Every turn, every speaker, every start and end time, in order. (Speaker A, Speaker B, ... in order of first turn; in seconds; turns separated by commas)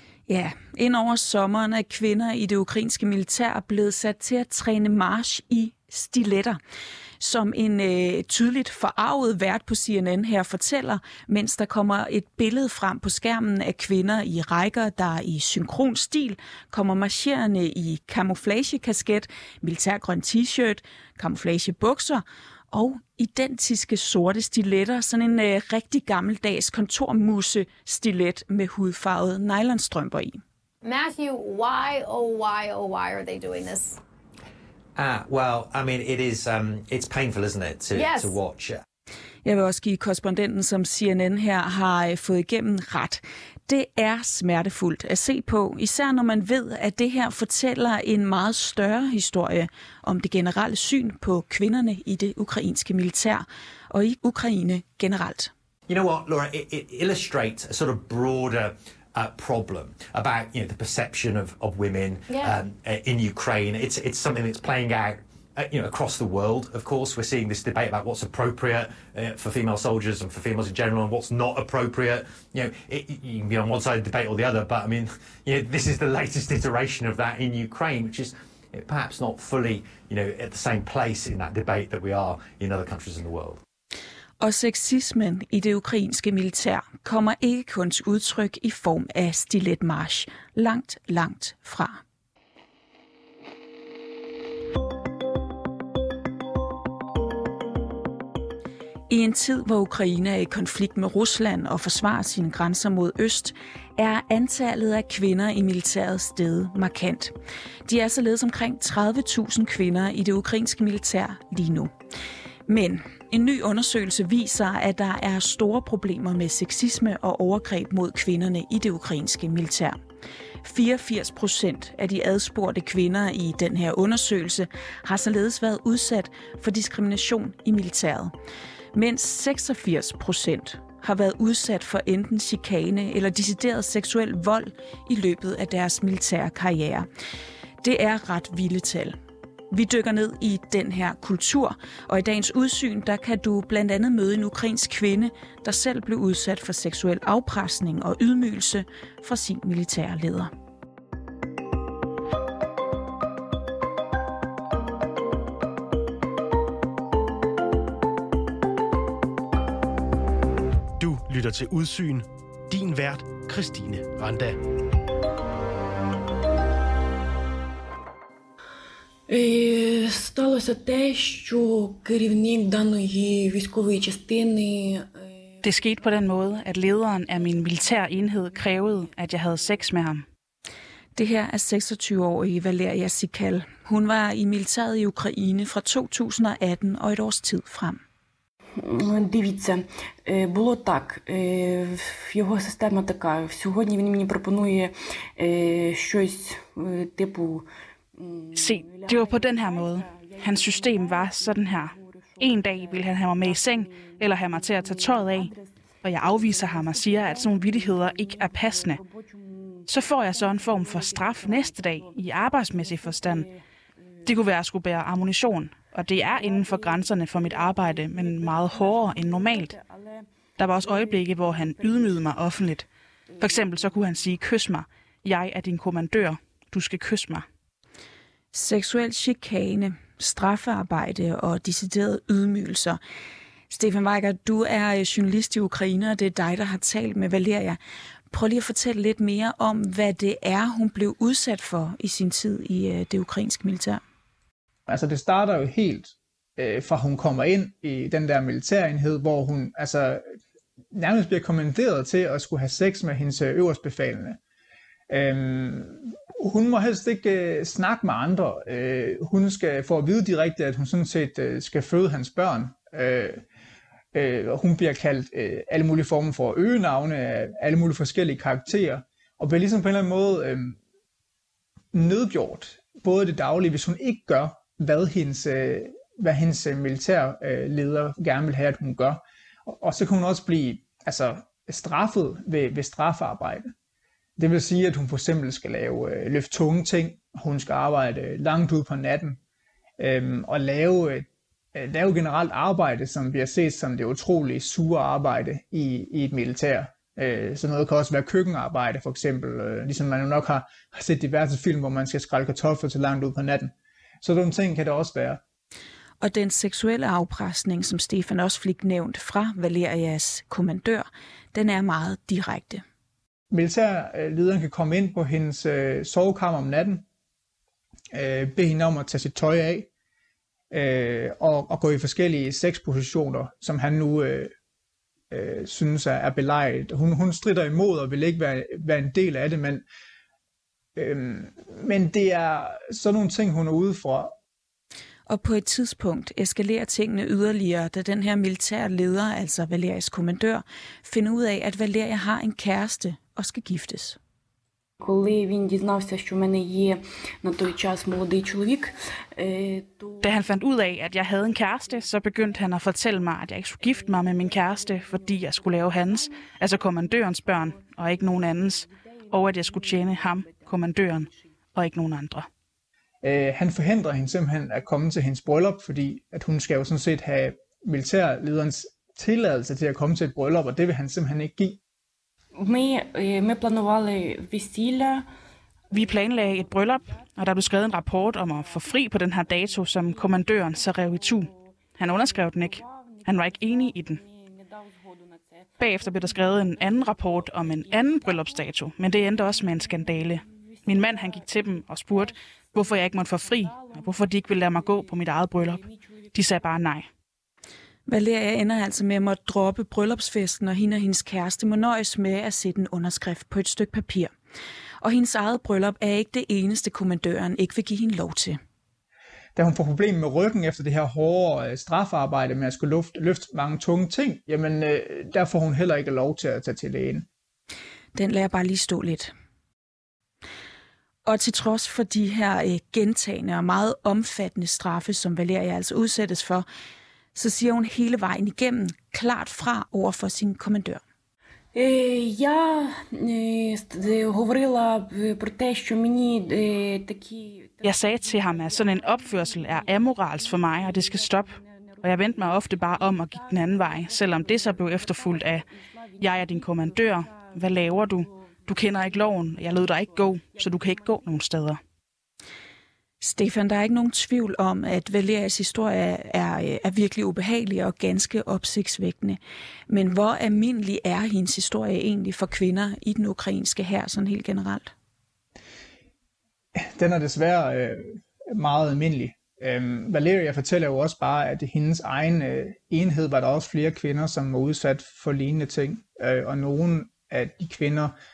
Speaker A: 0.3-6.6, Speaker A: 7.2-30.4, Speaker B: 30.8-34.0, Speaker C: 35.0-38.8, Speaker B: 37.9-38.3, Speaker A: 39.4-55.5, Speaker C: 55.9-83.6, Speaker A: 84.4-92.0, Speaker A: 99.1-107.3, Speaker A: 107.8-111.9, Speaker A: 112.7-120.0, Speaker A: 120.6-128.3, Speaker A: 128.9-137.1, Speaker A: 137.8-139.1, Speaker A: 139.7-150.5, Speaker D: 161.0-164.6, Speaker E: 169.3-176.0, Speaker F: 175.6-180.2, Speaker E: 177.4-177.9, Speaker A: 181.1-188.0, Speaker E: 188.8-205.7, Speaker F: 198.5-209.0, Speaker E: 206.4-213.6, Speaker F: 209.9-213.5, Speaker F: 214.2-219.7, Speaker E: 216.3-222.3, Speaker F: 220.6-222.9, Speaker F: 223.4-227.4, Speaker A: 228.5-233.0, Speaker A: 233.7-237.8, Speaker A: 238.3-244.0, Speaker G: 244.9-250.2, Speaker G: 250.9-254.4, Speaker G: 255.1-263.4, Speaker G: 264.1-270.8, Speaker G: 271.9-283.7, Speaker G: 284.4-289.4, Speaker G: 290.0-305.4, Speaker A: 306.2-312.8, Speaker G: 313.5-317.0, Speaker G: 318.1-319.9, Speaker G: 320.7-324.5, Speaker G: 325.3-329.8, Speaker G: 330.9-334.3, Speaker A: 335.3-344.2, Speaker E: 345.0-350.3, Speaker F: 350.2-362.5, Speaker E: 351.5-352.9, Speaker E: 353.8-360.6, Speaker G: 363.2-371.8, Speaker E: 372.6-375.2, Speaker F: 375.9-384.2, Speaker E: 375.9-377.1, Speaker E: 377.6-396.1, Speaker F: 385.8-397.1, Speaker A: 398.1-404.3, Speaker A: 405.0-408.6, Speaker G: 409.5-417.3, Speaker A: 418.1-419.3, Speaker A: 421.2-426.6, Speaker A: 427.3-431.0, Speaker E: 431.7-451.3, Speaker F: 437.8-445.6, Speaker F: 446.2-451.8, Speaker A: 453.2-464.9, Speaker G: 466.8-478.1